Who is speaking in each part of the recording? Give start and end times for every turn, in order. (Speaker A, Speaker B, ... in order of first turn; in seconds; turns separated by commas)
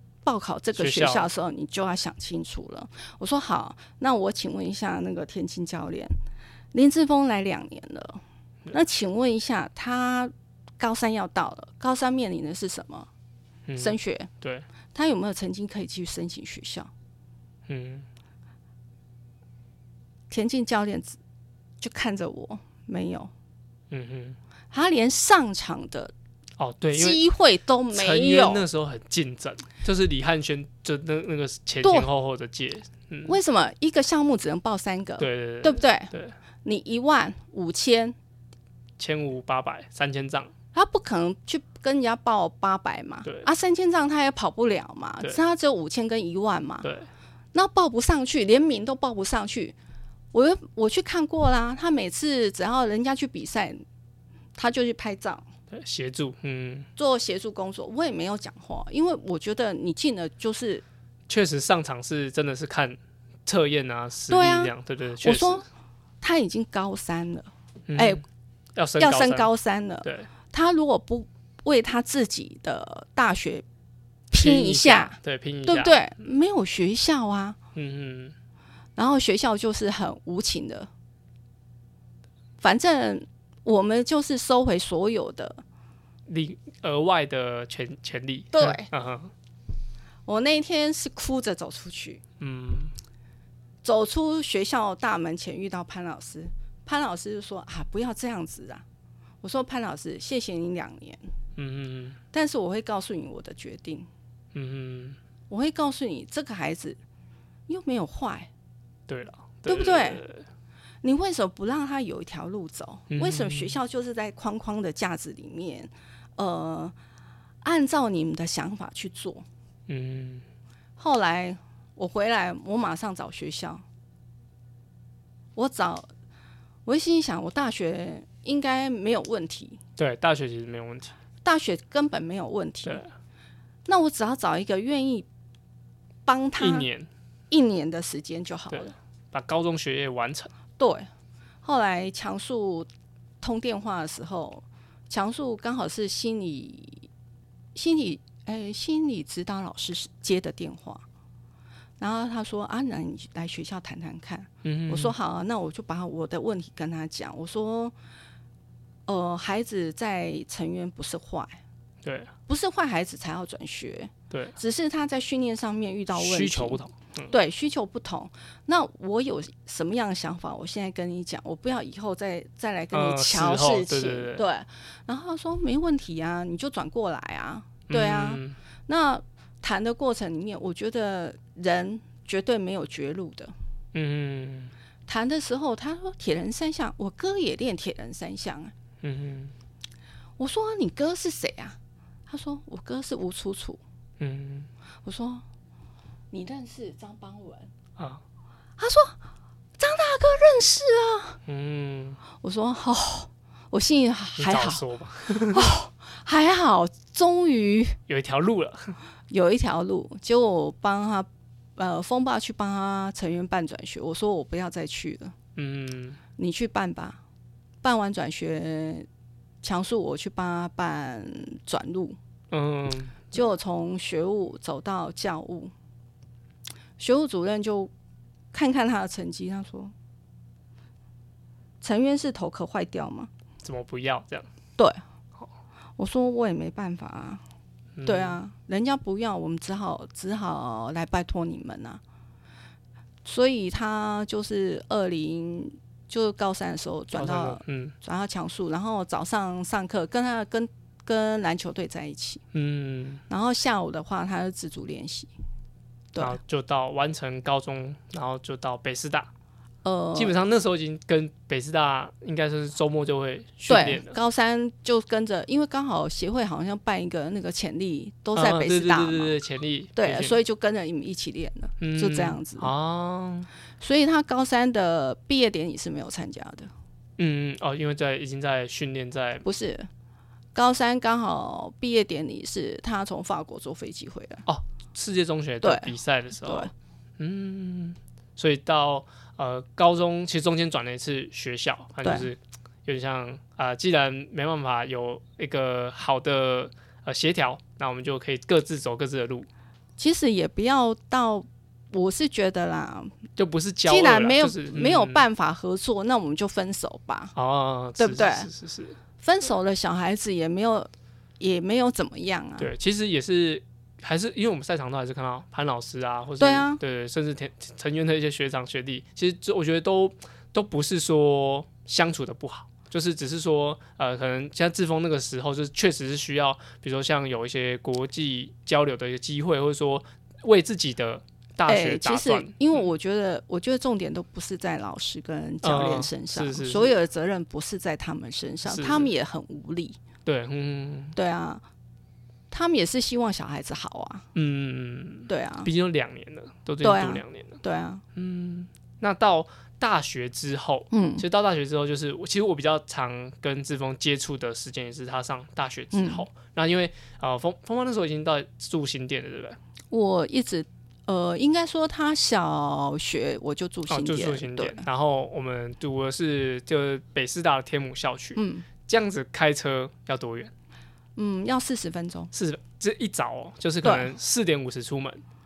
Speaker A: 0.2-6.1, Speaker B: 0.8-1.3, Speaker A: 6.7-8.2, Speaker A: 8.7-13.1, Speaker B: 13.7-14.7, Speaker A: 13.8-14.3, Speaker A: 14.9-16.9, Speaker B: 17.7-18.1, Speaker A: 20.3-21.2, Speaker A: 21.8-23.3, Speaker B: 23.9-24.4, Speaker A: 24.7-26.1, Speaker B: 26.6-27.2, Speaker A: 26.9-28.6, Speaker B: 27.9-33.4, Speaker A: 31.8-32.1, Speaker A: 33.2-36.1, Speaker B: 35.2-36.4, Speaker A: 36.6-38.1, Speaker B: 39.0-40.5, Speaker A: 40.7-46.9, Speaker B: 46.8-47.1, Speaker A: 47.5-49.8, Speaker A: 50.3-53.8, Speaker A: 54.6-55.5, Speaker B: 55.7-56.9, Speaker A: 57.0-60.8, Speaker B: 61.3-65.6, Speaker A: 64.3-65.7, Speaker A: 66.2-68.2, Speaker B: 67.9-68.2, Speaker B: 68.7-69.5, Speaker A: 69.0-73.6, Speaker B: 70.0-70.3, Speaker A: 74.3-77.6, Speaker B: 74.4-76.0, Speaker B: 77.7-78.3, Speaker A: 79.0-80.9, Speaker A: 82.6-85.6, Speaker B: 86.3-89.3, Speaker A: 88.5-88.9, Speaker A: 90.2-92.2, Speaker B: 92.4-92.9, Speaker A: 93.8-98.8, Speaker A: 99.4-101.2, Speaker B: 101.6-102.2, Speaker A: 102.3-104.1, Speaker B: 104.5-105.2, Speaker A: 105.5-107.0, Speaker A: 107.7-108.5, Speaker B: 109.1-110.5, Speaker A: 109.7-110.2, Speaker A: 111.0-116.9, Speaker B: 113.1-113.8, Speaker A: 117.6-119.4, Speaker B: 119.9-120.4, Speaker A: 121.0-123.8, Speaker A: 125.5-126.1, Speaker A: 126.8-129.8, Speaker B: 130.0-131.1, Speaker A: 131.4-133.0, Speaker B: 132.8-133.1, Speaker A: 133.9-135.3, Speaker A: 136.2-136.9, Speaker B: 136.6-137.1, Speaker A: 137.5-138.9, Speaker B: 138.7-140.5, Speaker A: 140.8-141.1, Speaker A: 141.6-142.9, Speaker A: 143.4-147.1, Speaker A: 147.7-151.0, Speaker A: 152.0-157.9, Speaker B: 154.6-155.1, Speaker A: 159.1-161.6, Speaker B: 162.0-162.3, Speaker A: 162.5-183.5, Speaker B: 164.3-164.6, Speaker B: 166.1-167.3, Speaker B: 172.9-174.4, Speaker B: 177.9-178.6, Speaker B: 183.9-184.7, Speaker A: 185.1-188.7, Speaker B: 189.0-189.5, Speaker A: 190.4-191.8, Speaker A: 192.3-193.8, Speaker B: 194.2-194.7, Speaker A: 195.0-195.4, Speaker A: 196.3-197.7, Speaker A: 198.8-199.2, Speaker A: 199.8-201.4, Speaker B: 201.5-202.2, Speaker A: 202.4-208.0, Speaker B: 204.4-205.7, Speaker B: 208.1-208.9, Speaker A: 209.3-215.3, Speaker B: 215.6-216.2, Speaker A: 216.4-217.2, Speaker A: 217.8-219.1, Speaker A: 219.6-222.2, Speaker B: 222.5-223.3, Speaker A: 223.3-225.7, Speaker A: 227.0-227.9, Speaker A: 228.5-229.9, Speaker A: 231.8-233.3, Speaker B: 233.6-234.5, Speaker A: 236.0-237.4, Speaker B: 237.9-238.4, Speaker A: 238.0-242.0, Speaker A: 243.2-252.4, Speaker B: 247.1-247.9, Speaker B: 252.5-253.2, Speaker A: 253.3-255.3, Speaker A: 256.1-256.4, Speaker B: 256.2-259.3, Speaker A: 259.8-260.3, Speaker B: 260.1-264.1, Speaker A: 263.7-269.4, Speaker B: 268.3-270.4, Speaker A: 269.9-272.7, Speaker B: 271.8-273.5, Speaker A: 273.8-276.7, Speaker B: 277.2-279.4, Speaker A: 279.4-279.9, Speaker A: 280.5-284.5, Speaker B: 284.4-299.5, Speaker A: 285.6-286.7, Speaker A: 292.0-292.3, Speaker A: 300.0-303.3, Speaker B: 303.4-305.2, Speaker A: 303.9-307.3, Speaker B: 307.3-309.0, Speaker A: 308.0-308.5, Speaker A: 309.2-312.7, Speaker B: 312.6-332.5, Speaker A: 316.4-316.8, Speaker A: 331.7-340.0, Speaker B: 335.6-336.9, Speaker B: 338.6-339.1, Speaker B: 340.2-341.1, Speaker A: 341.1-341.6, Speaker A: 342.5-344.3, Speaker B: 344.3-347.6, Speaker A: 345.3-345.7, Speaker A: 346.8-348.0, Speaker B: 348.1-359.6, Speaker A: 350.9-351.2, Speaker A: 355.9-356.2, Speaker A: 359.9-364.9, Speaker B: 363.9-370.5, Speaker A: 368.4-368.6, Speaker A: 371.1-372.3, Speaker B: 372.3-375.2, Speaker A: 373.8-374.1